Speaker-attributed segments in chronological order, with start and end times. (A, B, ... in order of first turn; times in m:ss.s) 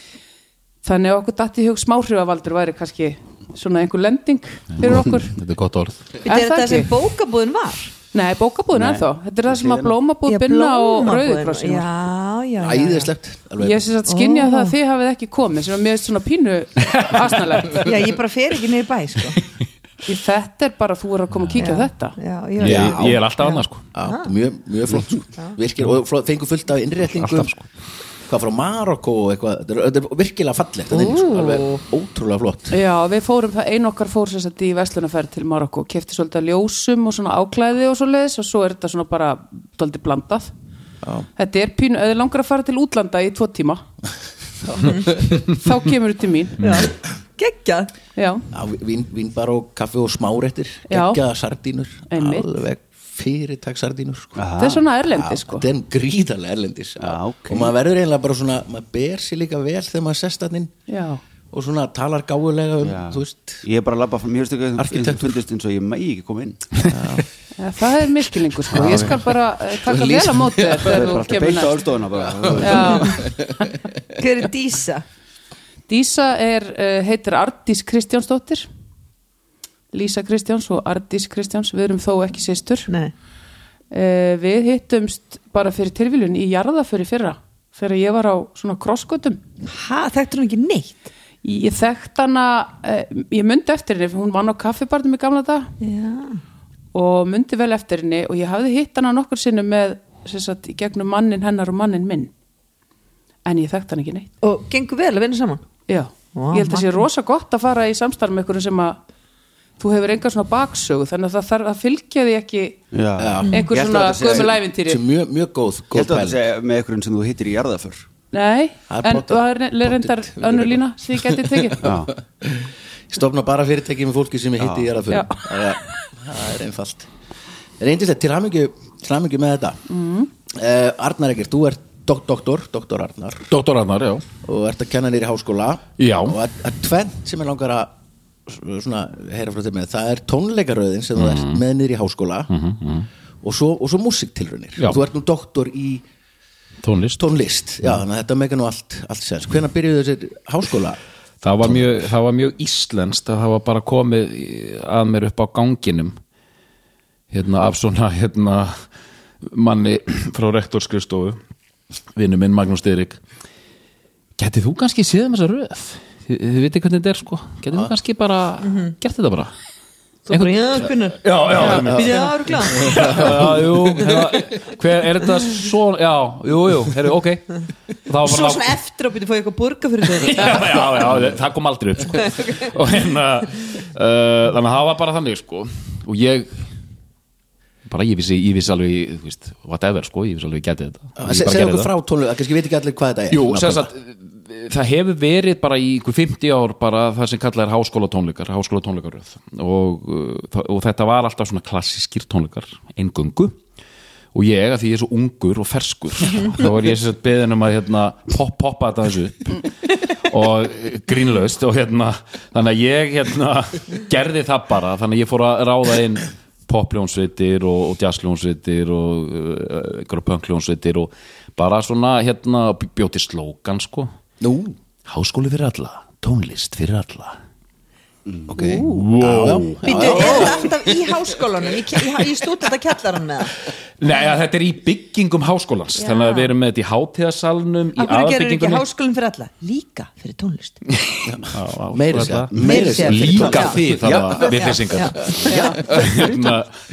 0:00.8-0:05.4 A
0:04.7-0:06.2 B
0:06.2-0:07.9 C
0:06.2-0:06.9 A
0:08.1-0:11.9 A
0:08.7-0:10.0 D
0:10.2-0:13.1 C
0:12.6-0:13.9 E
0:13.6-0:18.0 A
0:14.1-0:14.8 C
0:17.8-0:19.4 C
0:20.1-0:22.2 A
0:21.6-0:24.3 C
0:22.6-0:23.9 B
0:22.6-0:23.2 E
0:23.9-0:27.6 E
0:27.2-0:27.6 B
0:28.3-0:32.8 E
0:30.9-0:31.8 C
0:32.7-0:40.5 A
0:41.0-0:41.3 E
0:41.4-0:43.8 A
0:44.8-0:45.2 C
0:45.4-0:46.6 A
0:46.6-0:47.9 C
0:48.2-0:48.4 A
0:48.5-0:54.4 E
0:50.9-0:51.2 A
0:52.1-0:52.5 A
0:54.4-0:54.8 D
0:54.6-0:55.7 A
0:55.1-1:00.7 E
0:57.0-0:57.7 D
1:00.9-1:01.2 A
1:01.5-1:03.6 E
1:02.8-1:06.7 D
1:04.8-1:05.4 E
1:06.9-1:07.3 E
1:07.6-1:11.8 A
1:08.7-1:11.1 E
1:10.8-1:13.2 D
1:12.3-1:13.8 E
1:12.6-1:13.3 A
1:14.1-1:15.0 C
1:15.9-1:18.7 A
1:19.9-1:22.9 A
1:23.9-1:29.4 A
1:29.7-1:31.1 C
1:31.4-1:35.8 A
1:35.8-1:36.4 C
1:36.9-1:42.3 A
1:43.5-1:44.3 A
1:44.4-1:45.6 C
1:45.9-1:49.0 A
1:46.4-1:47.0 C
1:49.8-1:52.8 A
1:52.9-1:54.6 D
1:53.2-1:56.4 E
1:53.4-1:55.0 A
1:55.9-1:58.1 D
1:58.3-2:02.0 A
1:58.9-2:07.1 E
2:01.8-2:02.1 D
2:04.6-2:04.9 D
2:05.1-2:05.7 A
2:07.8-2:09.8 E
2:09.9-2:10.3 A
2:10.5-2:13.5 E
2:13.5-2:14.3 B
2:14.4-2:17.9 E
2:16.0-2:16.4 B
2:18.5-2:22.5 E
2:21.2-2:21.6 B
2:22.5-2:23.1 B
2:23.4-2:26.0 E
2:26.8-2:27.3 B
2:27.2-2:31.0 E
2:31.4-2:36.2 B
2:37.3-2:38.8 B
2:39.4-2:41.4 B
2:42.2-2:43.2 B
2:44.4-2:49.5 B
2:50.3-2:53.4 C
2:50.3-2:58.7 B
2:51.6-2:53.7 E
2:58.2-3:01.0 C
3:00.2-3:06.7 B
3:07.9-3:11.9 B
3:11.2-3:13.9 E
3:13.3-3:23.6 B
3:24.3-3:44.1 B
3:44.4-3:44.8 E
3:45.0-3:47.4 B
3:48.3-3:48.8 D
3:48.5-3:51.2 E
3:48.6-3:49.1 A
3:48.8-3:50.4 B
3:49.8-3:53.6 C
3:49.9-3:50.5 A
3:54.0-3:58.8 B
3:58.0-4:00.8 C
4:00.9-4:06.8 B
4:01.2-4:06.1 E
4:02.5-4:02.8 D
4:02.6-4:05.8 C
4:05.4-4:05.9 A